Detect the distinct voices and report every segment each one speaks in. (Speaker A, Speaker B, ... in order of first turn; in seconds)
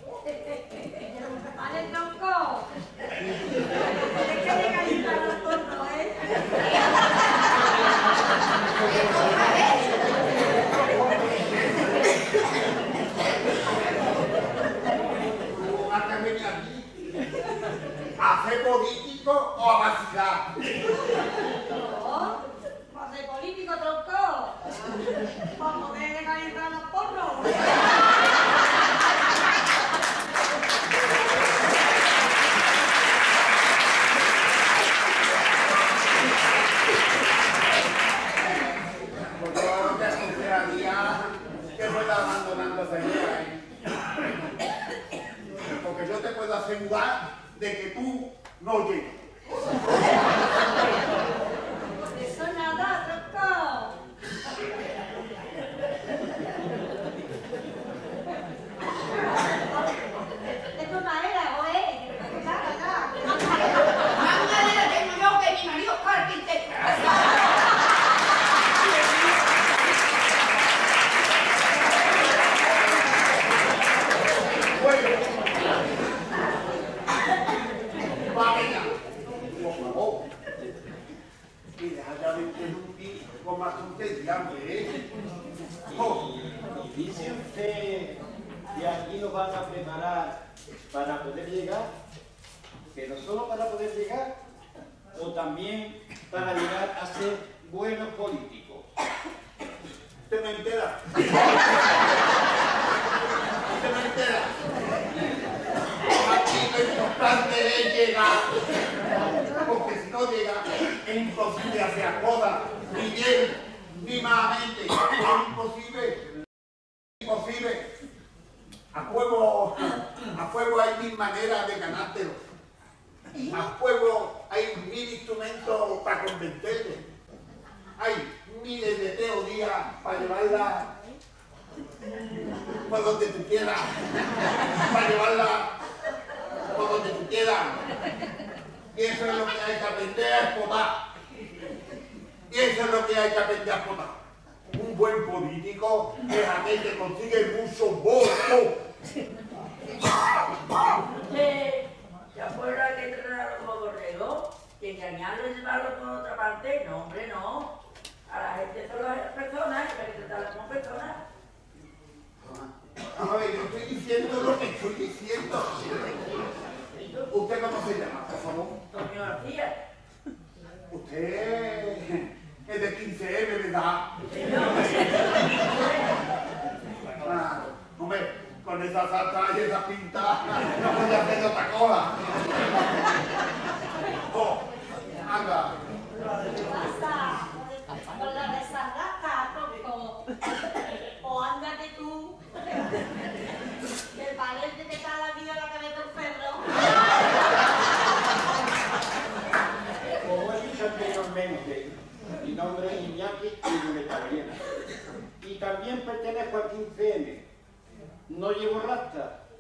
Speaker A: 0.2-2.7, 4.0-6.4, 21.7-22.4, 22.9-24.6, 25.5-27.8, 52.0-54.0, 60.7-63.8, 186.6-190.2, 191.2-192.4, 194.2-196.8
Speaker B: 8.8-10.1, 64.1-67.0
Speaker C: 15.5-17.2, 18.2-20.5, 39.3-43.7, 45.7-49.2, 74.7-75.4, 78.2-78.9, 79.5-80.3, 81.8-85.0, 85.9-86.2, 100.3-101.4, 103.7-104.6, 106.0-108.6, 109.6-116.3, 117.2-117.9, 118.9-122.4, 123.5-127.0, 128.0-130.9, 132.9-135.7, 136.7-137.8, 138.9-141.0, 142.5-144.2, 144.7-148.8, 162.4-165.9, 167.3-168.8, 170.9-174.1, 177.2-182.4, 184.3-184.7, 185.2-185.8
Speaker D: 85.9-91.9, 92.9-94.3, 95.1-98.9, 200.2-204.6, 205.4-207.5, 208.3-209.4
Speaker E: 151.2-157.7, 158.3-161.2, 168.9-169.7, 174.3-175.9